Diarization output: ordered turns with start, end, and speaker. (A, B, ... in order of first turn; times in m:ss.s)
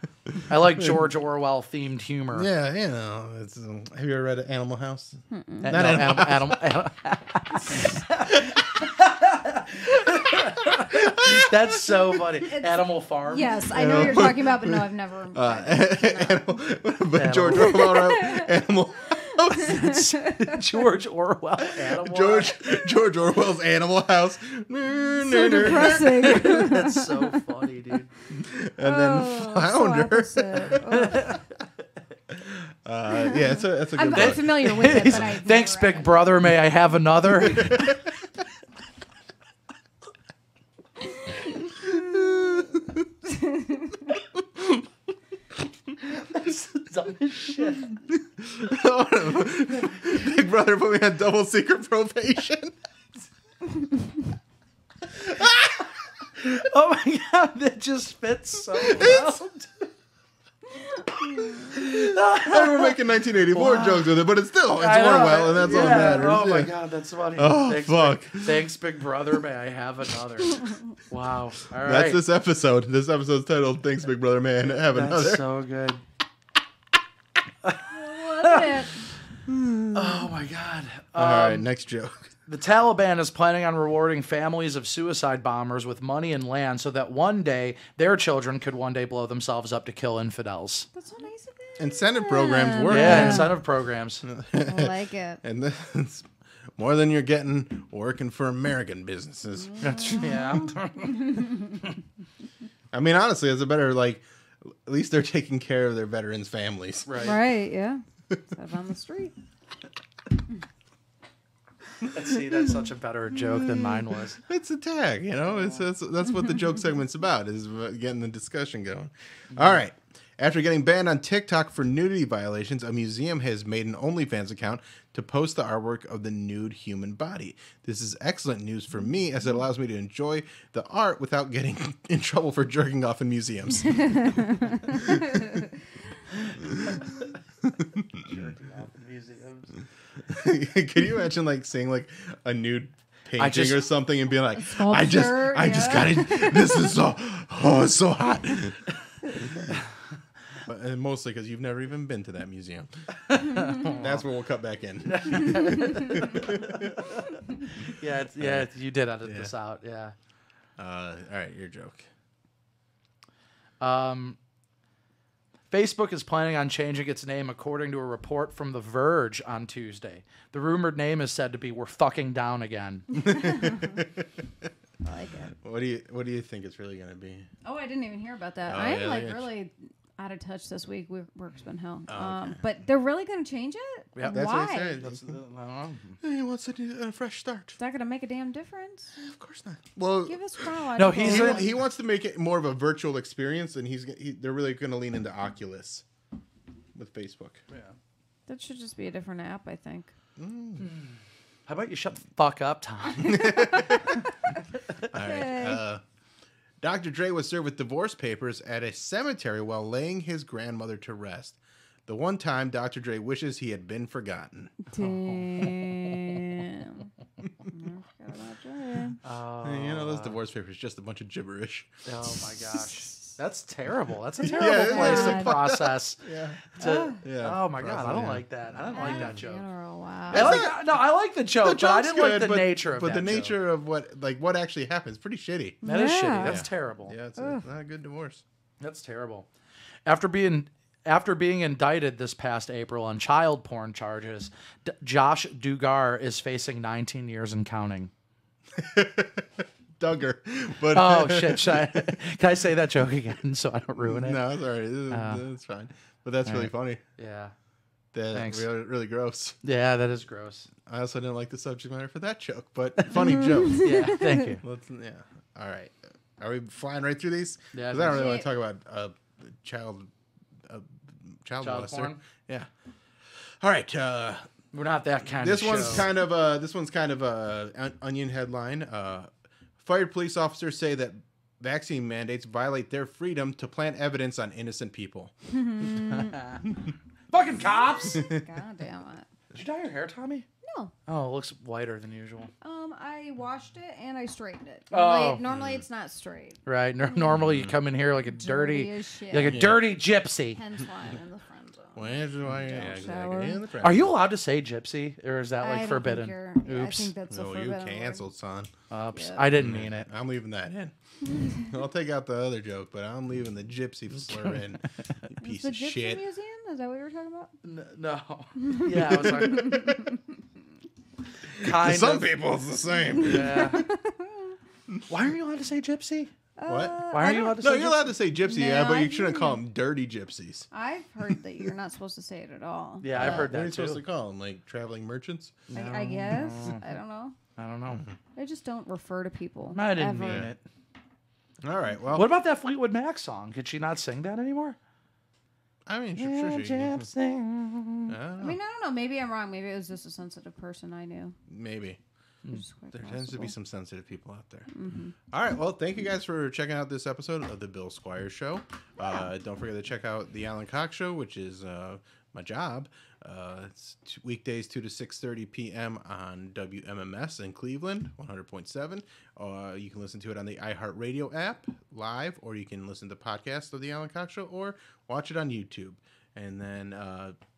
0:00.3-0:01.0 A
0:00.5-0:02.5 B
0:02.3-0:06.6 A
0:05.3-0:05.8 C
0:05.6-0:14.2 B
0:08.3-0:08.6 A
0:10.2-0:11.5 A
0:12.4-0:16.7 C
0:13.7-0:19.9 A
0:17.2-0:18.0 B
0:17.5-0:20.6 C
0:19.5-0:22.6 B
0:21.8-0:26.6 A
0:25.2-0:27.4 C
0:25.7-0:28.1 B
0:28.3-0:31.3 A
0:28.8-0:31.3 C
0:31.1-0:31.4 B
0:32.3-0:35.3 A
0:33.1-0:36.2 C
0:34.1-0:38.0 B
0:37.5-0:38.1 A
0:41.7-0:43.1 A
0:43.3-0:44.0 C
0:44.1-0:44.8 A
0:46.1-0:48.0 B
0:48.1-0:52.7 A
0:55.2-0:55.8 A
0:56.4-0:59.9 B
0:58.8-0:59.4 A
1:01.2-1:01.7 C
1:01.6-1:03.0 B
1:01.6-1:06.7 A
1:03.5-1:04.1 B
1:04.8-1:12.2 B
1:07.4-1:08.6 A
1:11.8-1:15.4 A
1:14.9-1:16.0 B
1:17.9-1:19.0 C
1:18.4-1:18.7 B
1:19.5-1:20.3 A
1:19.9-1:21.6 B
1:21.1-1:22.3 A
1:22.5-1:30.9 B
1:30.9-1:33.6 C
1:31.8-1:33.6 A
1:32.9-1:34.2 B
1:34.2-1:40.3 A
1:34.6-1:35.4 C
1:39.5-1:41.7 C
1:39.8-1:41.8 B
1:42.9-1:47.2 A
1:47.1-1:47.4 B
1:47.2-1:49.3 C
1:52.1-1:54.4 B
1:53.6-1:54.0 C
1:54.4-2:15.6 A
2:13.9-2:16.0 C
2:16.5-2:17.0 A
2:17.6-2:18.3 A
2:18.2-2:19.8 B
2:20.3-2:29.7 A
2:23.4-2:23.9 B
2:24.5-2:27.0 C
2:30.6-2:37.0 A
2:33.3-2:34.2 B
2:35.1-2:40.1 B
2:38.4-2:38.7 A
2:39.2-2:39.5 A
2:40.8-2:42.0 A
2:43.8-2:44.4 B
2:45.7-2:53.2 B
2:53.2-2:54.2 A
2:53.3-2:54.0 C
2:55.0-2:55.5 C
2:55.6-2:57.5 A
2:57.6-3:05.0 C
2:58.7-2:59.5 A
3:02.1-3:02.6 A
3:04.2-3:06.2 B
3:04.2-3:05.3 A
3:06.2-3:07.8 A
3:07.8-3:09.1 C
3:09.2-3:16.0 A
3:10.2-3:11.7 C
3:11.0-3:11.7 B
3:16.9-3:17.6 A
3:18.5-3:20.1 C
3:20.4-3:20.9 A
3:20.8-3:21.1 B
3:21.6-3:23.7 B
3:23.2-3:24.2 A
3:23.2-3:24.2 C
3:25.1-3:26.0 A
3:25.1-3:25.8 C
3:26.8-3:34.7 A
3:34.8-3:37.1 C
3:35.0-3:36.0 B
3:37.7-3:39.2 C
3:39.2-3:40.4 B
3:39.6-3:41.9 A
3:42.0-3:49.6 B
3:44.4-3:46.7 A
3:44.8-3:45.6 C
3:46.8-3:47.2 C
3:47.2-3:49.4 A
3:48.9-3:50.7 C
3:50.3-3:50.8 A
3:50.3-3:53.5 B
3:51.6-3:55.8 A
3:55.8-3:56.6 C
3:55.8-3:57.1 B
3:56.4-3:58.4 A
3:57.4-3:57.6 C
3:58.8-3:59.5 B
4:00.0-4:08.1 B
4:08.8-4:12.2 A
4:10.9-4:14.4 B
4:14.0-4:17.0 A
4:15.1-4:15.4 B
4:16.4-4:17.5 B
4:18.1-4:19.6 A
4:18.3-4:18.7 B
4:19.6-4:20.7 B
4:20.8-4:30.1 A
4:23.6-4:24.5 C
4:23.7-4:24.6 B
4:27.7-4:28.2 B
4:28.0-4:28.5 C
4:30.6-4:32.7 A
4:31.6-4:32.2 B
4:33.4-4:34.5 A
4:34.7-4:36.1 B
4:35.4-4:45.3 A
4:45.5-4:46.4 C
4:45.9-4:46.7 B
4:47.3-4:48.3 B
4:47.6-4:49.3 C
4:49.5-4:50.4 B
4:50.6-4:50.9 C
4:51.1-4:52.5 B
4:52.6-4:57.4 C
4:54.9-4:55.4 B
4:55.5-4:55.8 A
4:56.6-5:00.6 B
4:58.3-4:59.6 C
4:59.5-4:59.8 A
5:00.5-5:03.6 C
5:02.0-5:04.1 A
5:02.6-5:02.8 B
5:03.8-5:07.1 B
5:05.6-5:08.3 C
5:07.3-5:08.7 A
5:08.9-5:10.1 B
5:09.1-5:09.5 C
5:09.6-5:16.2 A
5:11.2-5:11.7 C
5:14.3-5:14.6 B
5:15.4-5:17.5 C
5:17.6-5:19.9 B
5:18.6-5:20.2 C
5:19.1-5:20.1 A
5:21.5-5:23.8 A
5:21.6-5:22.3 B
5:23.2-5:23.8 B
5:23.3-5:24.6 C
5:25.1-5:26.3 B
5:26.6-5:27.5 C
5:26.6-5:30.7 A
5:27.1-5:28.1 B
5:28.4-5:29.6 C
5:30.7-5:33.5 C
5:33.0-5:34.0 B
5:33.1-5:35.6 A
5:35.7-5:36.8 B
5:35.7-5:37.4 C
5:37.6-5:38.0 B
5:38.3-5:40.5 C
5:39.7-5:40.6 B
5:40.2-5:40.5 A
5:41.6-5:42.3 A
5:42.1-5:44.8 B
5:45.8-5:47.1 A
5:46.2-5:48.1 B
5:48.1-5:48.6 A
5:48.4-5:51.4 C
5:51.5-5:52.0 A
5:52.5-5:53.5 C
5:52.9-5:54.7 A
5:54.7-5:55.1 C
5:55.3-6:17.4 A
5:59.0-5:59.3 C